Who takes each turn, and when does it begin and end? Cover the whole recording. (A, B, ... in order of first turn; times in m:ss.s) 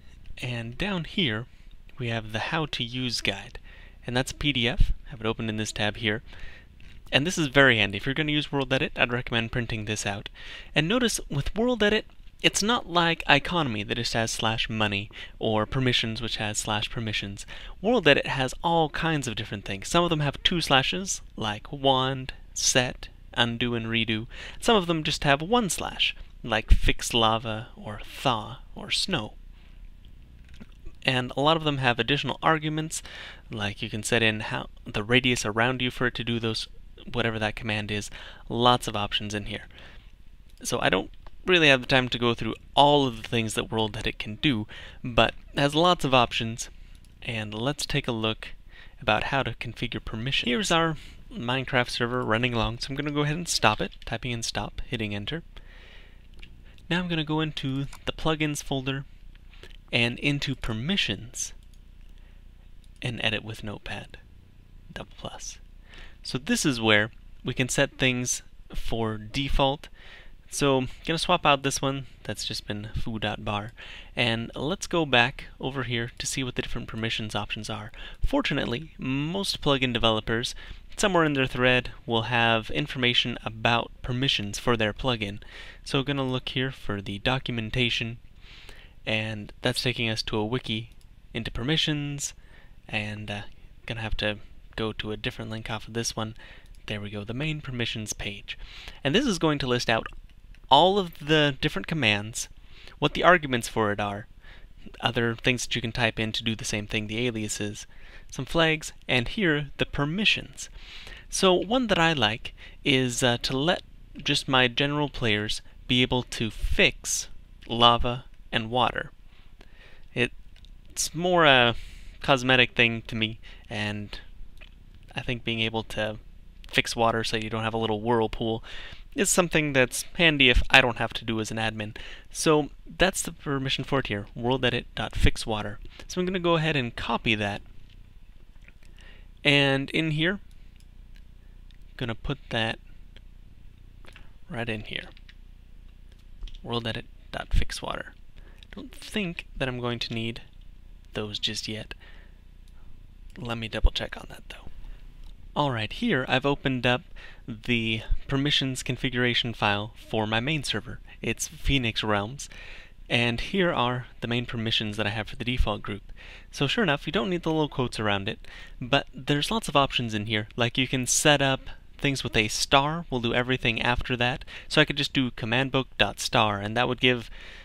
0:00.4-0:06.2 A
0:07.1-0:29.4 A
0:31.0-0:39.7 A
0:40.6-0:46.7 A
0:47.2-0:55.4 A
0:56.9-0:59.1 A
0:59.9-1:01.6 A
1:03.0-1:04.2 A
1:04.9-1:05.6 A
1:06.2-1:09.9 A
1:10.5-1:28.2 A
1:29.1-1:32.4 A
1:32.9-1:40.1 A
1:40.7-1:44.3 A
1:45.0-1:50.7 A
1:51.3-1:59.1 A
2:00.9-2:04.2 A
2:05.1-2:17.6 A
2:19.4-2:20.4 A
2:22.0-2:22.8 A
2:24.5-2:25.1 A
2:26.6-2:28.2 A
2:28.7-2:30.4 A
2:31.1-2:32.0 A
2:33.4-2:34.7 A
2:35.6-2:42.5 A
2:43.1-2:57.3 A